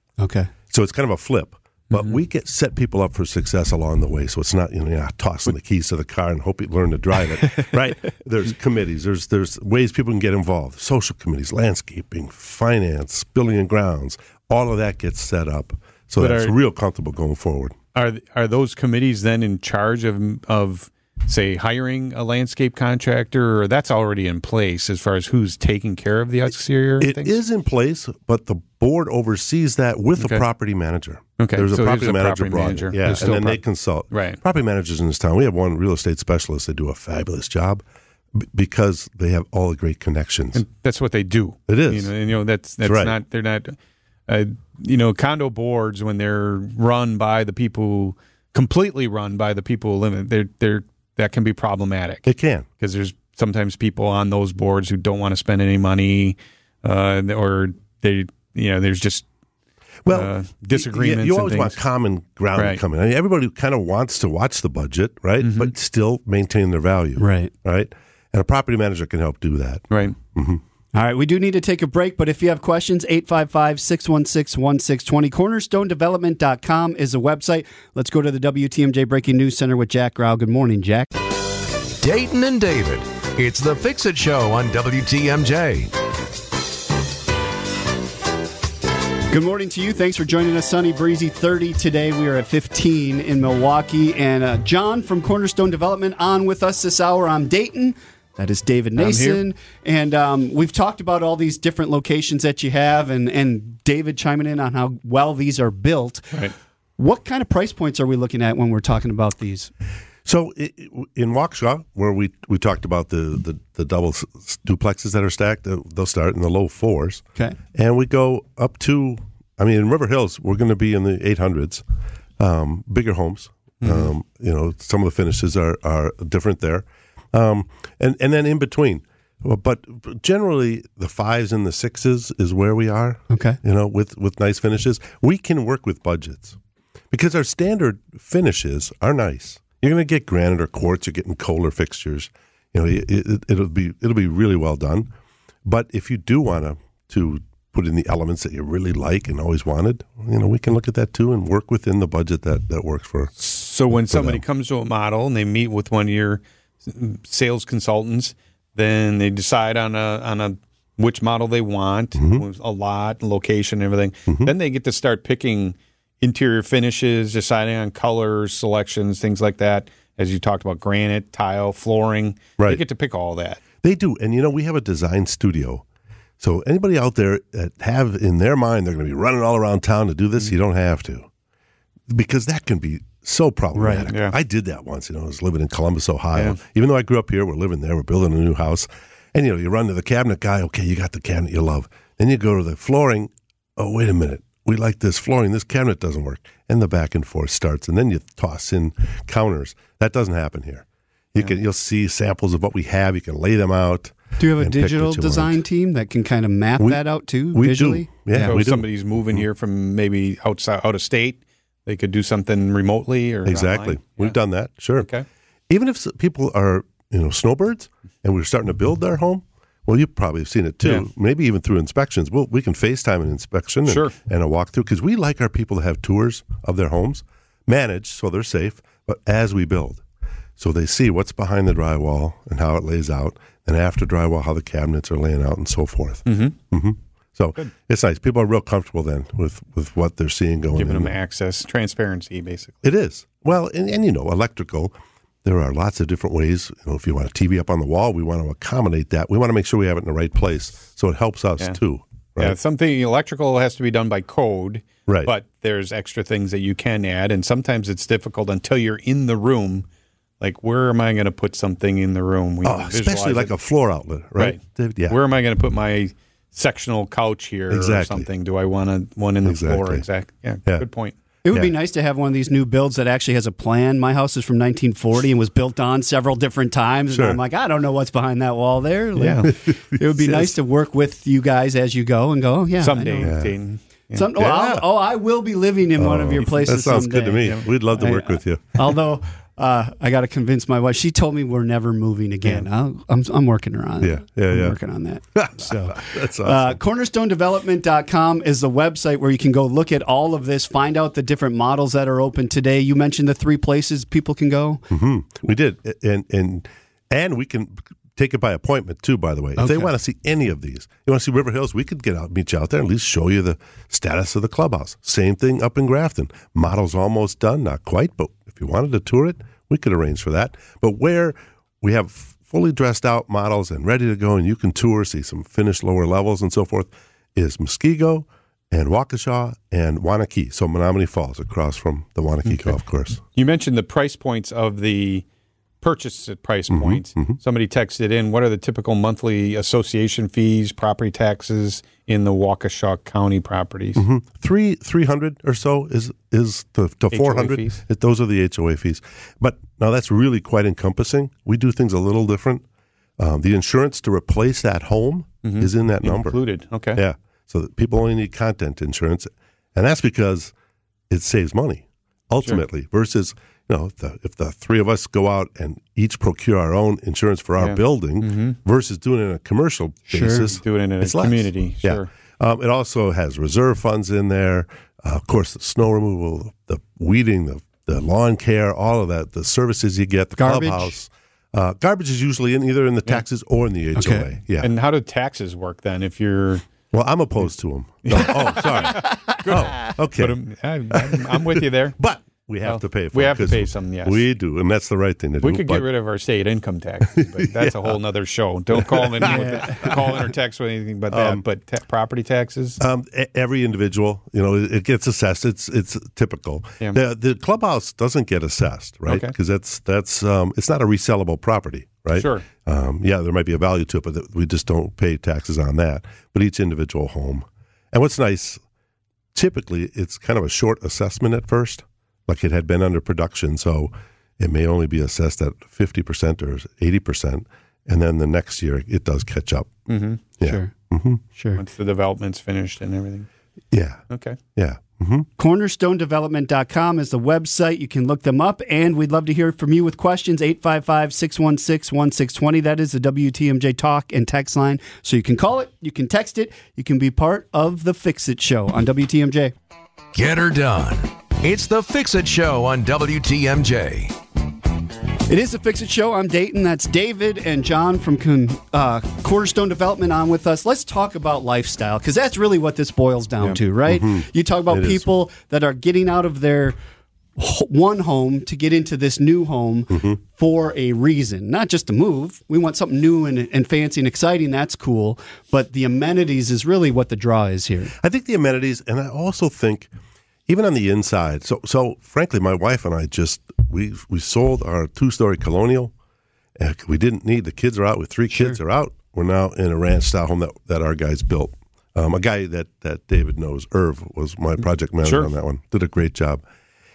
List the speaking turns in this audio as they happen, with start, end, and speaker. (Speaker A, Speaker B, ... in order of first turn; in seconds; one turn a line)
Speaker A: 0.2-0.5
Speaker B: 0.7-17.8
Speaker C: 16.2-16.5
Speaker C: 17.9-27.3
Speaker B: 27.0-37.8
Speaker C: 30.2-30.4
Speaker C: 31.4-34.4
Speaker B: 38.3-40.6
Speaker C: 40.5-52.3
Speaker B: 41.7-42.1
Speaker B: 42.8-43.1
Speaker B: 52.3-52.7
Speaker C: 52.8-59.2
Speaker B: 60.0-70.6
Speaker C: 60.1-61.8
Speaker C: 65.4-65.7
Speaker A: 67.2-67.5
Speaker C: 69.9-70.2
Speaker A: 70.9-81.1
Speaker D: 82.0-85.9
Speaker A: 89.3-106.4
Speaker C: 99.0-99.4
Speaker A: 107.0-109.7
Speaker B: 110.2-121.8
Speaker B: 122.4-136.6
Speaker C: 123.8-124.1
Speaker A: 133.3-133.6
Speaker B: 137.1-145.1
Speaker B: 145.7-153.3
Speaker C: 153.4-173.6
Speaker B: 154.1-154.4
Speaker B: 162.2-162.4
Speaker B: 164.3-164.5
Speaker B: 173.8-175.8
Speaker B: 176.4-181.3
Speaker B: 182.1-205.6
Speaker A: 183.7-184.1
Speaker C: 184.1-184.3
Speaker A: 204.4-208.6
Speaker B: 206.8-209.4
Speaker C: 208.4-214.3
Speaker B: 213.4-215.1
Speaker C: 215.0-215.2
Speaker B: 215.7-230.0
Speaker C: 223.9-224.1
Speaker B: 230.6-241.1
Speaker C: 236.3-236.5
Speaker C: 240.7-242.8
Speaker B: 242.8-252.6
Speaker C: 252.4-259.9
Speaker B: 255.1-255.3
Speaker C: 260.4-263.5
Speaker B: 262.6-265.2
Speaker C: 264.4-271.1
Speaker B: 267.7-268.3
Speaker B: 269.4-270.0
Speaker A: 271.4-283.3
Speaker B: 277.1-277.4
Speaker C: 279.1-279.5
Speaker B: 279.5-280.5
Speaker C: 282.8-284.3
Speaker B: 283.2-283.6
Speaker A: 284.1-304.8
Speaker B: 284.4-284.9
Speaker B: 286.0-288.8
Speaker B: 294.0-294.8
Speaker B: 295.3-296.8
Speaker B: 304.9-333.2
Speaker A: 309.6-309.9
Speaker C: 332.4-332.7
Speaker C: 333.3-335.2
Speaker C: 335.8-344.0
Speaker B: 336.7-337.4
Speaker B: 343.9-352.6
Speaker C: 347.1-347.8
Speaker B: 353.2-356.4
Speaker C: 355.4-357.0
Speaker B: 356.9-360.5
Speaker B: 361.1-384.7
Speaker C: 367.6-368.6
Speaker A: 370.1-370.5
Speaker C: 370.5-372.1
Speaker A: 380.4-380.9
Speaker A: 383.9-384.3
Speaker C: 384.6-386.6
Speaker B: 386.9-390.4
Speaker C: 388.0-392.0
Speaker B: 390.9-395.9
Speaker C: 392.6-394.2
Speaker C: 395.4-402.8
Speaker B: 397.1-398.0
Speaker B: 398.7-400.0
Speaker A: 399.3-400.0
Speaker B: 401.1-401.4
Speaker B: 402.8-418.6
Speaker C: 409.1-409.3
Speaker C: 412.1-412.4
Speaker B: 419.3-429.8
Speaker C: 429.9-430.2
Speaker B: 430.4-431.2
Speaker A: 430.4-430.7
Speaker A: 431.4-431.6
Speaker C: 431.6-433.3
Speaker B: 433.7-434.0
Speaker C: 434.1-434.4
Speaker B: 434.6-435.3
Speaker A: 435.4-449.5
Speaker D: 450.1-454.1
Speaker A: 455.3-466.8
Speaker B: 463.9-465.1
Speaker A: 467.4-477.9
Speaker B: 469.9-470.2
Speaker B: 478.0-479.9
Speaker B: 480.5-485.9
Speaker B: 486.6-496.4
Speaker A: 488.3-488.6
Speaker C: 495.0-495.3